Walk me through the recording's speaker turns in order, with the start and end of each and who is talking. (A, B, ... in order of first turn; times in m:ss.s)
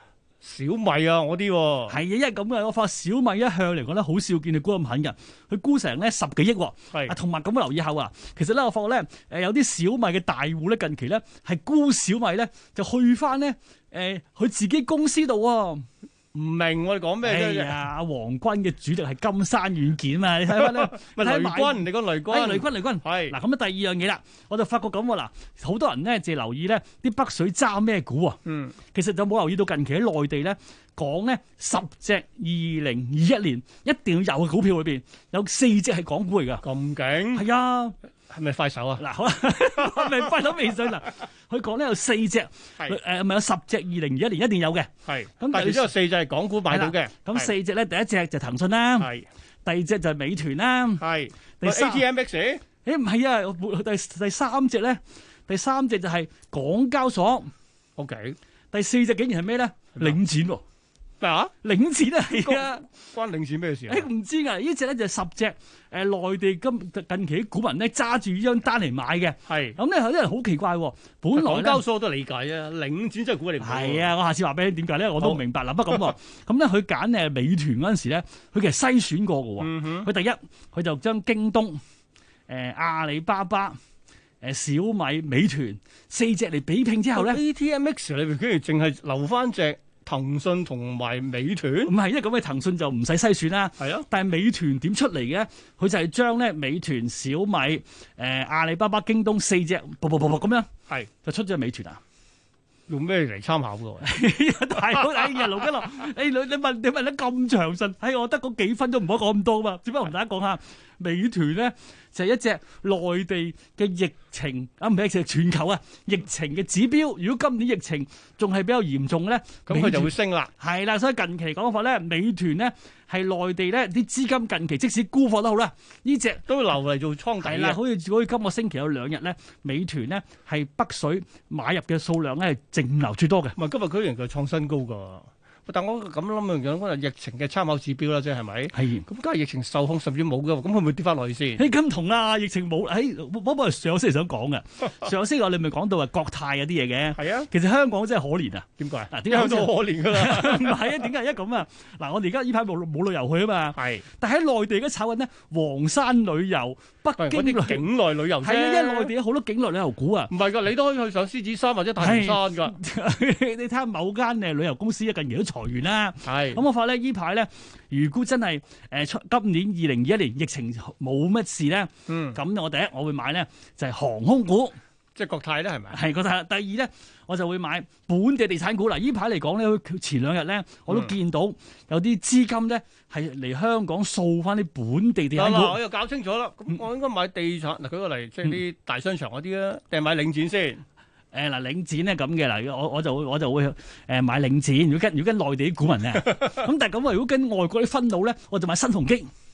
0:00.4-0:02.0 A
0:01.9-0:15.8 B
0:16.3-0:17.8 A
0:17.2-0:28.4 B
0:20.5-0:23.4 A
0:28.4-0:28.7 A
0:28.9-0:36.6 B
0:36.6-0:37.4 A
0:37.3-0:37.9 B
0:38.3-0:39.0 A
0:39.0-0:45.9 B
0:45.0-0:47.5 A
0:46.7-0:49.1 B
0:49.0-0:49.2 A
0:49.6-0:51.0 B
0:51.0-0:52.6 A
0:51.6-0:52.0 B
0:52.8-0:57.5 B
0:58.0-0:58.4 A
0:58.7-1:00.6 B
1:01.2-1:01.5 A
1:01.6-1:02.8 B
1:02.3-1:04.1 A
1:03.9-1:11.8 B
1:09.5-1:09.8 A
1:11.3-1:14.1 A
1:13.6-1:21.8 B
1:15.2-1:16.1 A
1:19.6-1:20.1 A
1:22.5-1:23.8 B
1:24.4-1:27.4 B
1:27.1-1:31.9 A
1:31.8-1:42.0 B
1:33.8-1:34.0 A
1:42.9-1:44.1 A
1:44.0-2:06.4 B
1:44.8-1:45.6 A
1:59.7-2:00.5 A
2:06.4-2:07.8 A
2:07.4-2:13.5 B
2:13.6-2:21.6 A
2:18.7-2:19.0 B
2:21.6-2:37.9 B
2:27.2-2:27.5 A
2:28.8-2:31.0 A
2:33.7-2:34.0 A
2:37.2-2:39.1 A
2:38.4-2:40.3 B
2:40.3-2:42.7 A
2:42.0-2:54.8 B
2:46.2-2:46.6 A
2:52.1-2:52.4 A
2:55.2-2:56.0 A
2:55.9-3:05.8 B
3:00.9-3:01.1 A
3:05.3-3:10.8 A
3:11.3-3:19.3 B